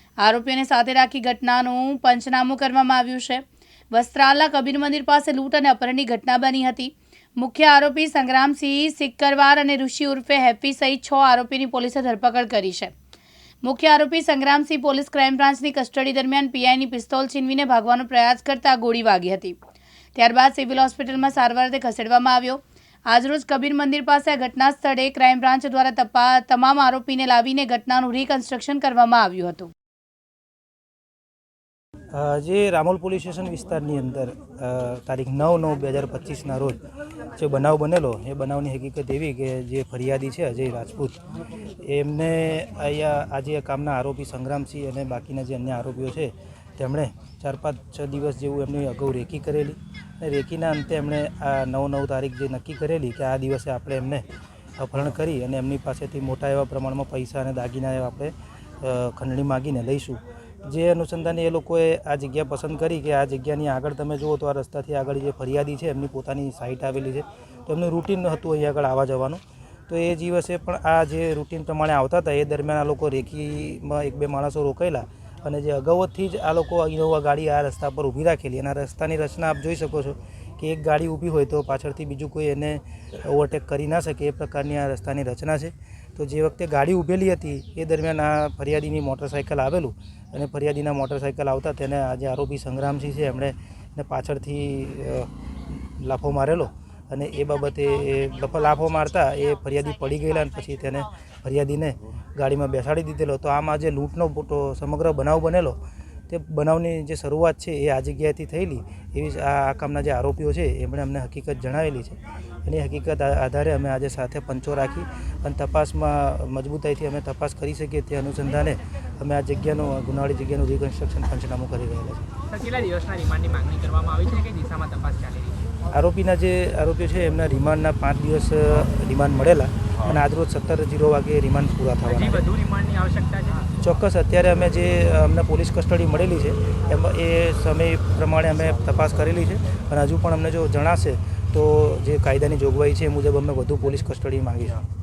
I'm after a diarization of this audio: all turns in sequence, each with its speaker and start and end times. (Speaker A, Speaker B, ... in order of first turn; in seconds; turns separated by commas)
Speaker A: 0.2-12.9, Speaker A: 13.6-19.6, Speaker A: 20.2-29.7, Speaker B: 32.1-54.2, Speaker B: 54.8-122.3, Speaker C: 122.5-125.7, Speaker B: 125.9-132.5, Speaker C: 132.1-133.7, Speaker B: 133.8-144.8